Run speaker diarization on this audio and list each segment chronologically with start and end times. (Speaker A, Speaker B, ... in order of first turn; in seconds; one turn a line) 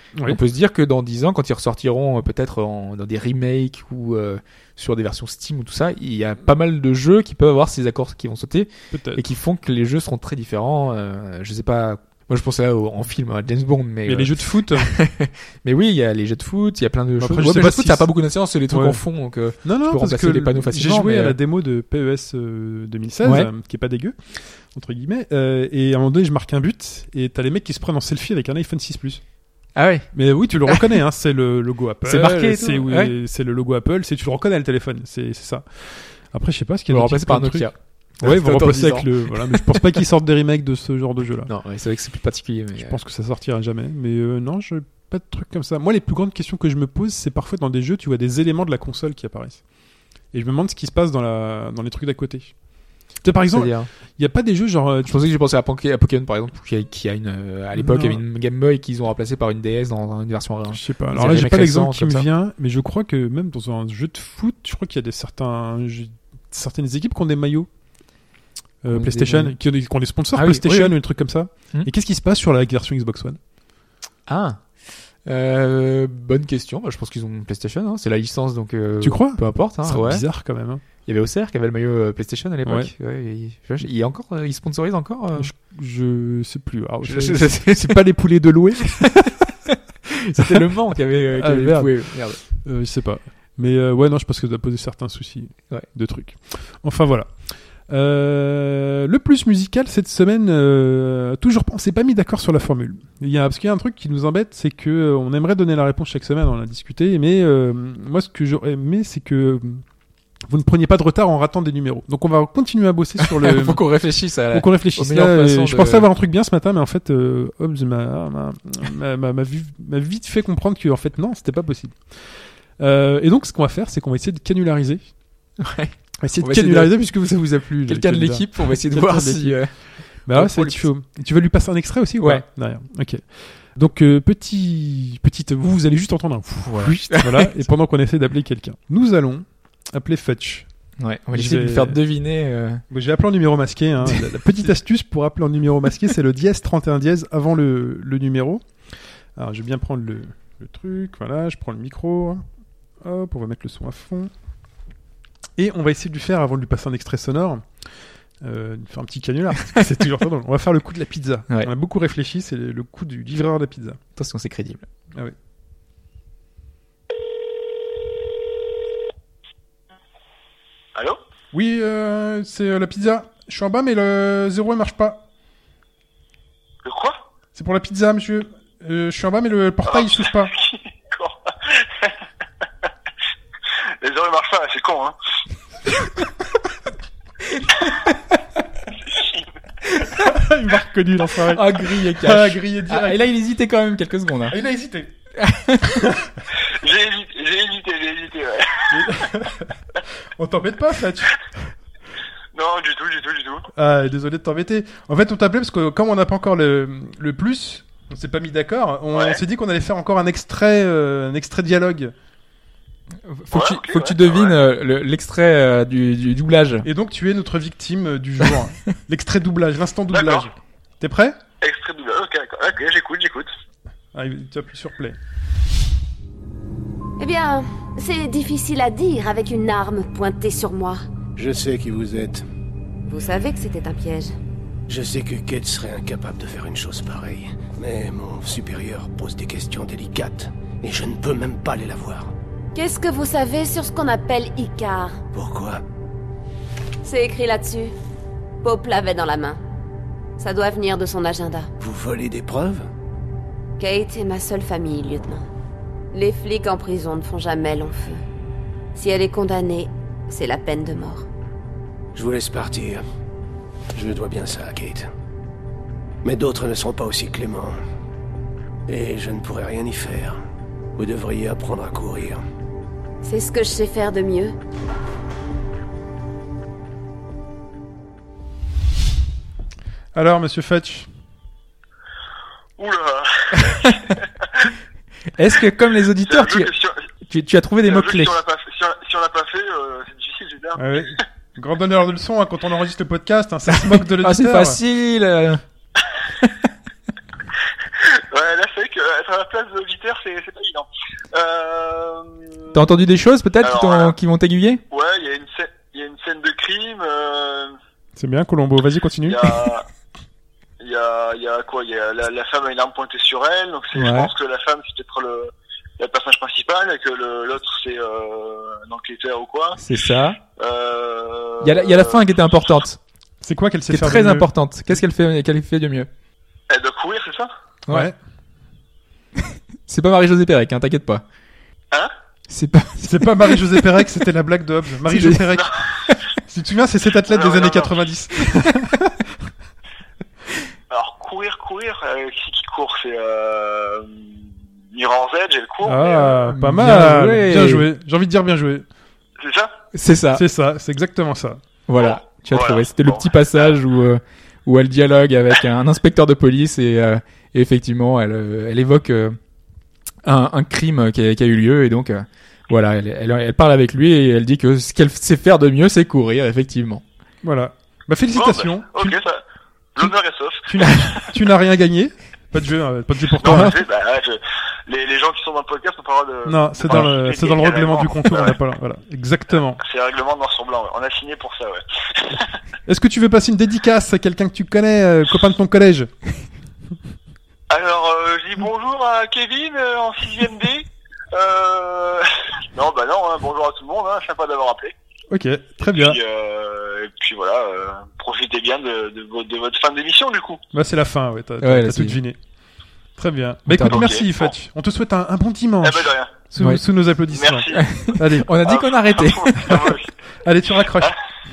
Speaker A: 0.2-21.4
Speaker B: 8.9-9.2
Speaker B: 14.1-14.9
Speaker B: 17.2-18.1
Speaker B: 18.7-19.0
Speaker B: 19.6-29.2
Speaker A: 23.2-23.5
Speaker A: 29.8-30.1
Speaker B: 30.1-37.6
Speaker A: 32.0-33.1
Speaker A: 36.9-40.0
Speaker B: 38.2-41.5
Speaker A: 41.5-43.0
Speaker B: 42.8-49.6
Speaker B: 50.3-52.5
Speaker B: 53.2-55.2
Speaker A: 53.5-53.9
Speaker A: 55.0-62.3
Speaker B: 57.8-58.2
Speaker B: 60.7-67.7
Speaker B: 68.8-73.4
Speaker A: 68.9-69.5
Speaker A: 70.3-71.0
Speaker A: 74.3-74.6
Speaker A: 75.2-80.2
Speaker B: 79.0-80.8
Speaker A: 81.0-85.5
Speaker B: 82.6-82.9
Speaker B: 85.3-89.5
Speaker A: 87.0-88.0
Speaker A: 89.7-92.4
Speaker B: 90.3-90.6
Speaker B: 91.3-97.3
Speaker B: 97.9-109.8
Speaker B: 110.5-113.8
Speaker A: 113.2-116.1
Speaker B: 114.5-125.0
Speaker A: 125.6-126.9
Speaker B: 126.2-129.7
Speaker A: 127.9-129.7
Speaker B: 130.2-140.7
Speaker A: 130.3-130.8
Speaker A: 136.7-137.5
Speaker A: 141.0-142.8
Speaker B: 141.3-142.0
Speaker B: 142.9-152.4
Speaker B: 153.0-154.3
Speaker B: 155.6-157.7
Speaker B: 158.4-164.0
Speaker A: 164.2-164.9
Speaker C: 170.9-171.2
Speaker B: 171.5-175.2
Speaker C: 176.8-177.2
Speaker B: 177.5-180.5
Speaker C: 179.8-182.2
Speaker C: 184.0-185.1
Speaker C: 189.1-189.4
Speaker A: 190.0-190.3
Speaker B: 190.2-193.2
Speaker A: 191.5-194.6
Speaker B: 194.5-195.1
Speaker A: 195.4-195.9
Speaker B: 196.0-196.3
Speaker C: 196.7-199.0
Speaker B: 198.9-199.7
Speaker B: 200.4-201.4
Speaker C: 202.5-203.7
Speaker B: 203.7-212.1
Speaker C: 209.1-209.4
Speaker A: 213.3-216.8
Speaker C: 213.5-214.6
Speaker B: 216.8-221.4
Speaker C: 220.1-220.5
Speaker C: 221.6-223.5
Speaker B: 224.1-225.2
Speaker D: 227.2-231.0
Speaker E: 231.3-232.4
Speaker D: 233.1-234.3
Speaker E: 234.9-242.3
Speaker D: 242.7-245.2
Speaker E: 245.3-245.8
Speaker D: 247.0-247.9
Speaker D: 248.6-249.6
Speaker D: 250.4-251.7
Speaker E: 251.8-252.9
Speaker D: 253.8-255.4
Speaker D: 256.1-258.2
Speaker D: 258.9-261.2
Speaker E: 262.1-263.0
Speaker E: 263.9-265.1
Speaker E: 266.2-267.8
Speaker E: 268.9-270.4
Speaker E: 270.9-272.4
Speaker D: 273.2-274.6
Speaker B: 280.1-281.1
Speaker C: 282.8-284.7
Speaker A: 285.4-286.7
Speaker C: 286.2-287.0
Speaker A: 287.3-288.4
Speaker C: 287.8-291.2
Speaker B: 290.8-294.8
Speaker A: 293.7-295.6
Speaker C: 298.0-302.8
Speaker A: 302.7-304.8
Speaker C: 303.6-304.1
Speaker C: 304.9-307.8
Speaker B: 308.1-309.4
Speaker C: 309.2-309.9
Speaker C: 310.8-319.8
Speaker A: 313.9-314.3
Speaker A: 319.8-320.4
Speaker C: 320.6-322.3
Speaker A: 321.6-323.0
Speaker B: 323.4-324.5
Speaker A: 323.9-326.1
Speaker C: 326.7-327.5
Speaker B: 327.9-328.1
Speaker A: 329.9-331.2
Speaker A: 332.5-333.9
Speaker B: 333.0-335.7
Speaker A: 335.1-335.5
Speaker B: 336.4-339.5
Speaker C: 337.3-337.9
Speaker C: 340.9-344.1
Speaker C: 344.9-346.4
Speaker B: 345.8-348.9
Speaker A: 346.4-347.9
Speaker C: 349.4-349.7
Speaker A: 349.9-350.4
Speaker B: 350.3-351.6
Speaker A: 351.9-359.4
Speaker C: 351.9-353.8
Speaker A: 360.2-367.0
Speaker B: 367.4-369.2
Speaker C: 368.3-369.4
Speaker C: 369.9-371.2
Speaker B: 370.7-373.8
Speaker C: 373.4-378.6
Speaker B: 376.4-379.8
Speaker C: 379.8-382.5
Speaker B: 382.9-386.1
Speaker C: 387.7-394.9
Speaker B: 395.3-396.2
Speaker C: 395.8-400.6
Speaker B: 400.7-402.4
Speaker A: 401.6-402.2
Speaker B: 403.2-408.5
Speaker A: 403.7-404.1
Speaker C: 403.9-404.5
Speaker C: 405.8-406.4
Speaker C: 407.3-407.9
Speaker A: 407.7-410.0
Speaker C: 408.6-410.1
Speaker B: 410.4-411.1